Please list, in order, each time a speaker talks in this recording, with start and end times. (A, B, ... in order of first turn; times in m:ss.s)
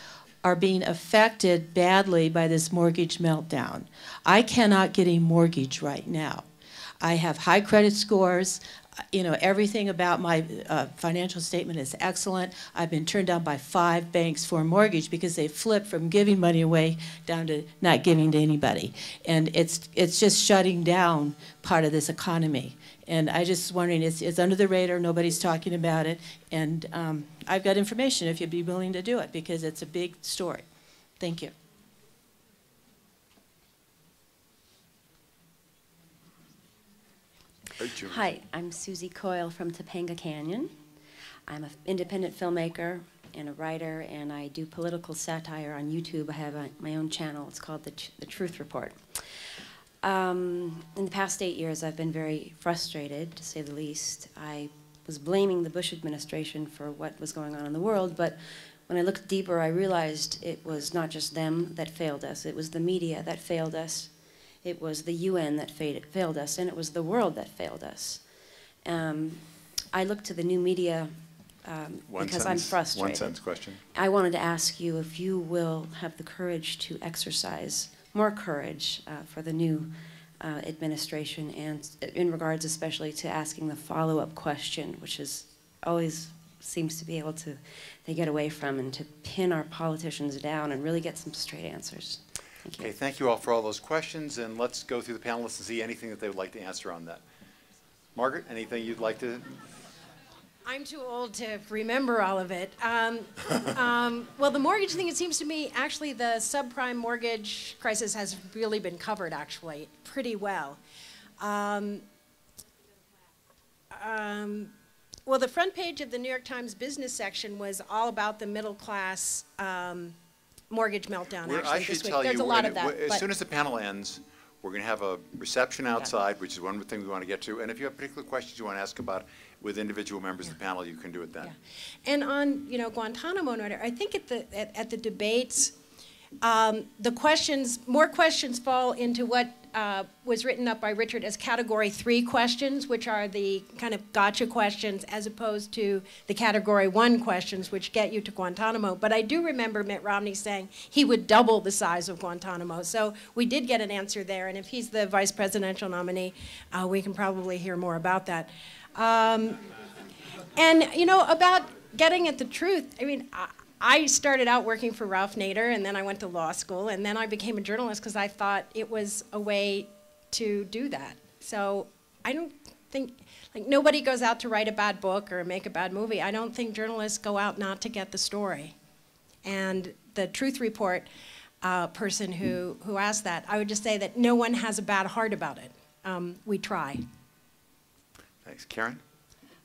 0:00.4-0:06.5 A
0:07.0-0:30.7 A
0:31.2-0:31.5 A
0:37.8-0:38.2 B
0:38.0-0:40.7 C
0:41.5-0:49.0 C
0:50.0-1:04.1 C
1:04.6-1:08.2 C
1:08.8-1:11.1 C
1:11.6-1:13.4 C
1:12.1-1:13.8 B
1:13.9-1:32.9 C
1:32.8-1:37.2 B
1:38.1-1:39.4 B
1:40.6-1:50.8 D
1:51.4-1:52.0 D
1:53.9-1:54.7 D
1:55.2-2:00.2 D
2:00.7-2:03.2 D
2:01.4-2:11.5 B
2:11.4-2:15.7 D
2:16.4-2:39.6 D
2:40.6-2:58.7 D
2:59.4-3:01.1 D
3:01.6-3:07.0 D
3:08.4-3:09.0 B